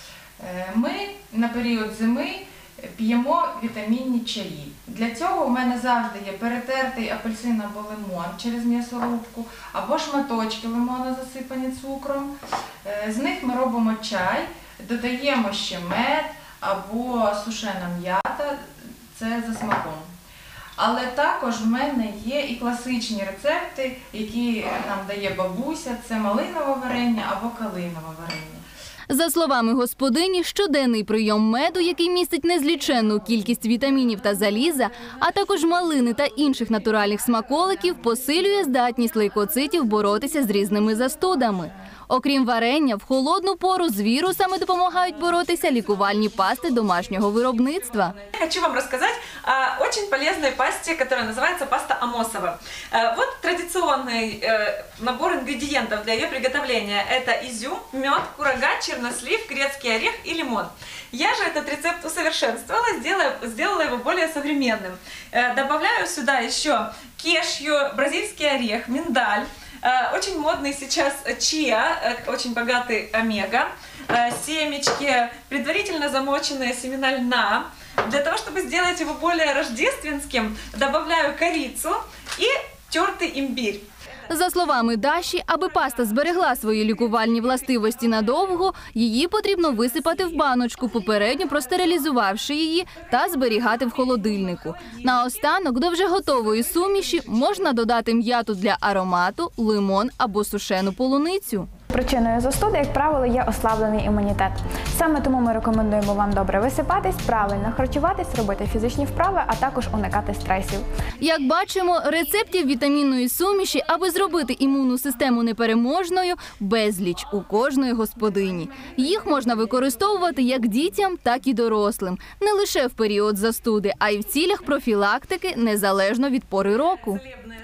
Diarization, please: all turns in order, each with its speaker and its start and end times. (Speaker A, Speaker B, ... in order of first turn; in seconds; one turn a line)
Speaker A: 0.4-20.1
Speaker A: 20.8-28.6
Speaker B: 29.1-48.1
Speaker C: 48.3-83.8
Speaker B: 84.3-101.7
Speaker D: 102.0-110.9
Speaker B: 111.2-127.2